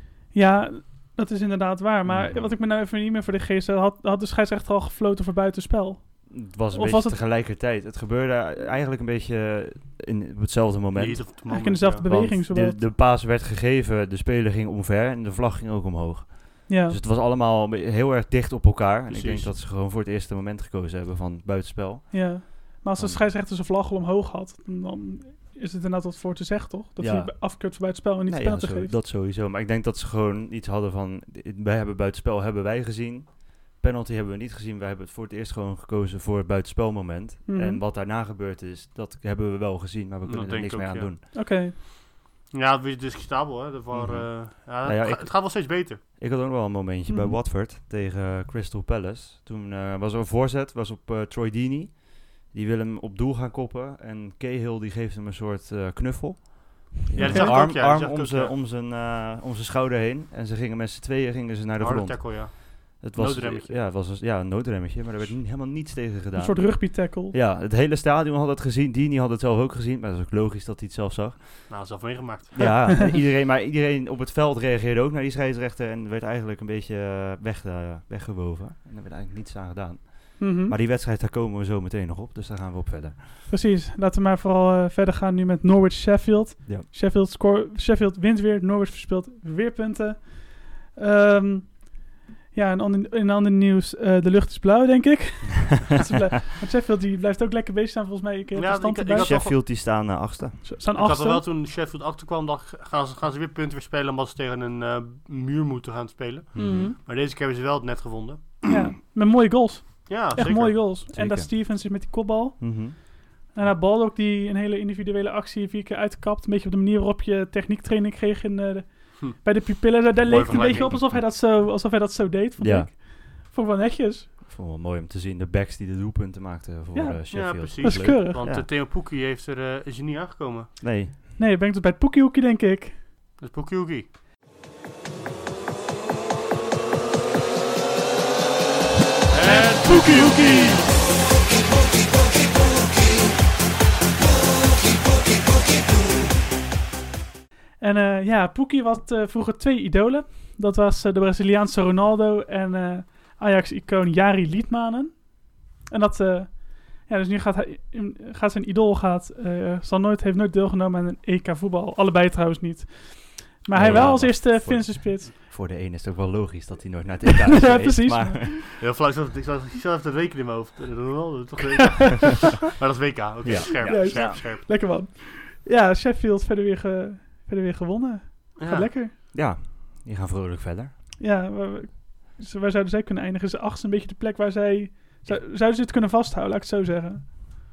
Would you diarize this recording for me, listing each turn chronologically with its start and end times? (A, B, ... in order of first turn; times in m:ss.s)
0:00.3-0:07.2 A
0:02.0-0:02.6 B
0:06.3-0:23.2 B
0:11.0-0:12.1 C
0:11.5-0:12.8 A
0:16.7-0:17.0 A
0:19.1-0:19.5 C
0:22.1-0:28.9 A
0:27.0-0:41.2 B
0:37.5-0:37.8 A
0:40.2-0:41.2 C
0:41.3-0:41.7 A
0:42.5-0:46.0 C
0:43.9-1:12.0 B
0:47.1-0:47.4 A
0:57.2-0:58.6 C
0:57.2-0:57.6 A
1:01.8-1:03.8 C
1:06.4-1:07.4 A
1:11.7-1:12.9 C
1:12.5-1:23.3 B
1:12.6-1:12.9 A
1:20.4-1:20.8 A
1:23.5-1:39.4 A
1:38.6-1:39.6 C
1:39.2-1:40.7 B
1:40.6-1:41.5 A
1:41.0-1:48.6 C
1:46.5-1:46.9 B
1:46.6-1:47.0 A
1:48.7-2:04.3 A
1:50.1-1:50.8 C
1:51.1-1:51.7 B
1:52.6-1:53.0 B
1:59.2-1:59.5 C
2:00.2-2:01.0 C
2:00.7-2:01.2 B
2:02.6-2:02.9 B
2:04.4-2:08.7 B
2:06.9-2:08.4 A
2:07.3-2:10.7 C
2:10.8-2:11.1 B
2:11.4-2:13.0 A
2:13.4-2:14.1 C
2:19.3-2:20.9 C
2:19.4-2:20.8 A
2:27.8-2:45.3 A
2:43.7-2:48.7 B
2:43.8-2:44.3 C
2:47.4-2:48.7 A
2:48.8-2:54.7 C
2:52.0-2:52.3 A
2:53.4-2:54.4 B
2:53.8-2:59.1 A
2:58.6-2:58.9 C
2:59.3-3:00.9 B
3:01.2-3:07.3 A